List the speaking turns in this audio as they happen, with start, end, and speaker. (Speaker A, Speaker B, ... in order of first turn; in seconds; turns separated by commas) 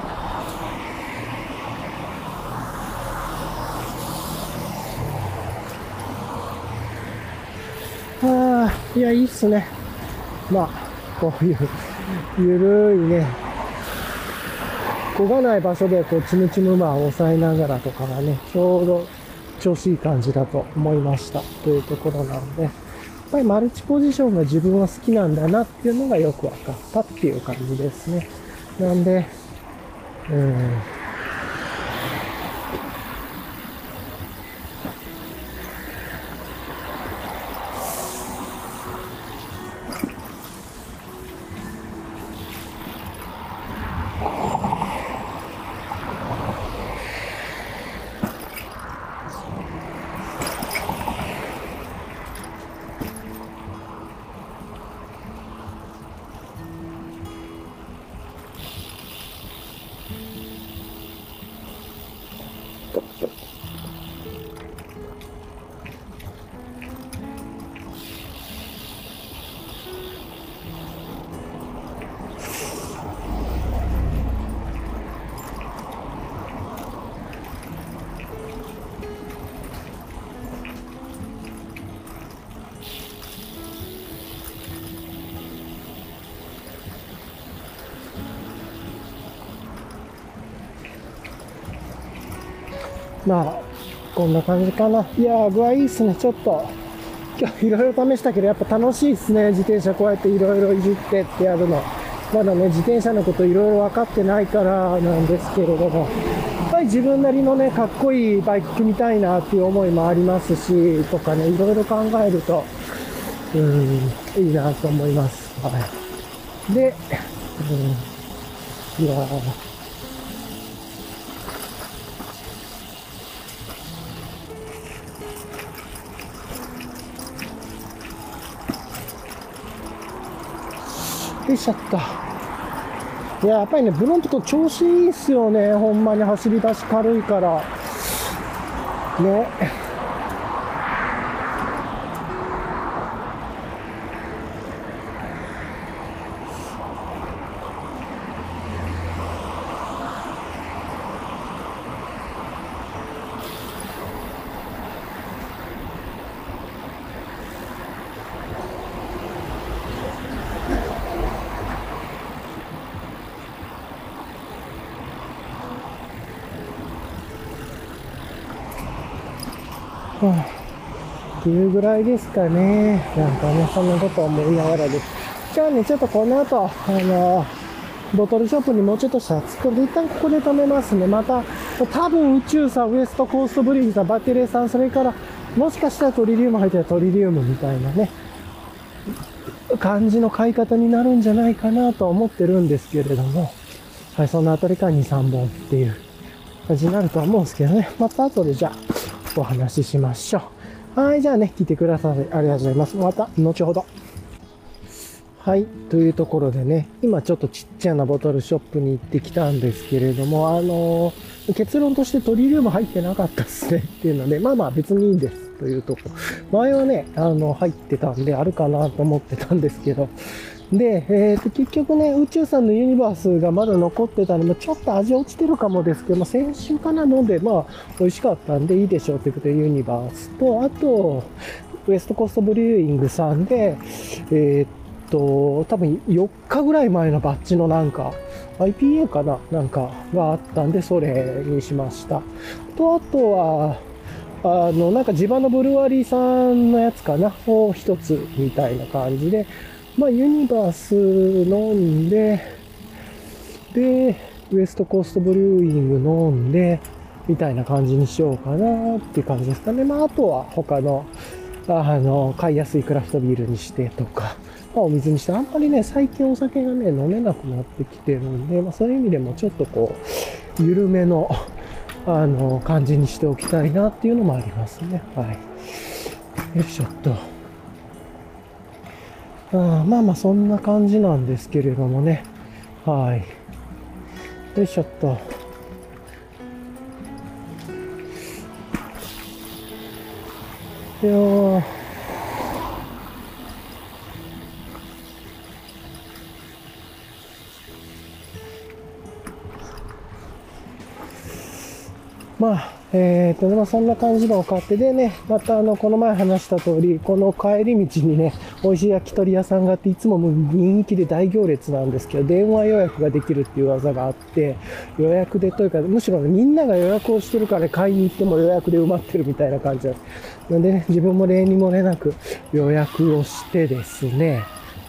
Speaker A: 8.2-9.7, Speaker A: 10.5-13.4, Speaker A: 15.1-22.8, Speaker A: 23.3-29.3, Speaker A: 30.3-30.9, Speaker A: 93.2-96.8, Speaker A: 97.3-106.1, Speaker A: 106.7-112.7, Speaker A: 113.5-115.9, Speaker A: 116.7-118.1, Speaker A: 119.0-119.6, Speaker A: 131.0-132.2, Speaker A: 133.4-138.3, Speaker A: 139.2-139.7, Speaker A: 170.2-170.6, Speaker A: 171.4-177.6, Speaker A: 178.1-188.2, Speaker A: 189.7-193.6, Speaker A: 194.1-196.1, Speaker A: 196.7-198.8, Speaker A: 199.3-203.9, Speaker A: 205.4-220.1, Speaker A: 220.7-231.3, Speaker A: 231.9-243.8, Speaker A: 244.4-252.6, Speaker A: 253.7-261.1, Speaker A: 261.7-271.5, Speaker A: 272.1-277.2, Speaker A: 279.5-282.3, Speaker A: 282.8-283.3, Speaker A: 284.5-285.2, Speaker A: 291.0-291.8, Speaker A: 302.4-324.5